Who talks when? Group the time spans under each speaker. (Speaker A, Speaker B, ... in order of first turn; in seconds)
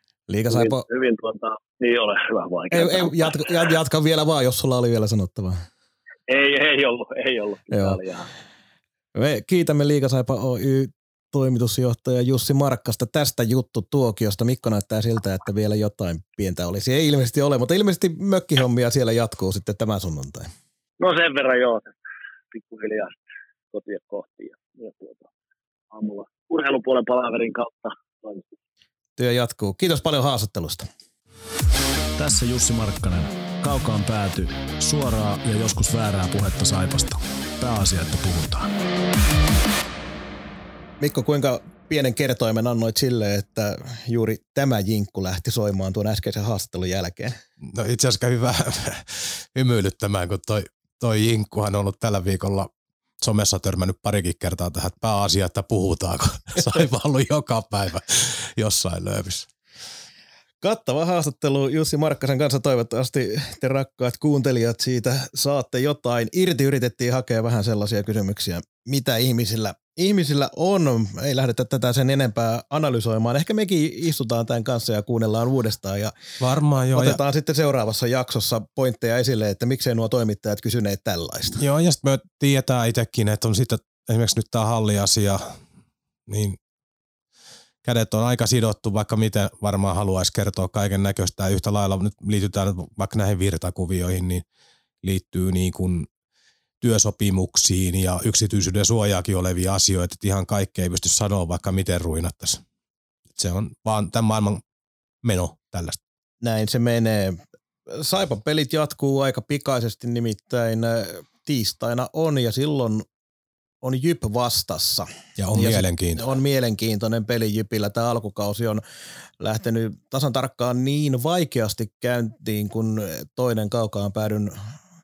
Speaker A: 0.3-0.8, 2.7-5.6, 7.7-8.0, 9.2-20.5, 29.2-30.9, 41.0-47.4, 60.6-76.1, 76.9-81.6, 106.4-107.4, 107.9-113.0, 113.8-118.8, 119.4-124.5
Speaker B: 0.5-3.4, 6.3-8.3, 21.0-21.9, 22.5-25.3, 25.9-28.5
Speaker C: 32.2-38.7
Speaker D: 47.6-59.5, 76.4-77.2, 81.6-85.5, 86.3-86.6, 87.8-94.4, 95.0-96.1, 96.8-102.6, 103.3-104.6, 105.2-106.0, 115.4-116.3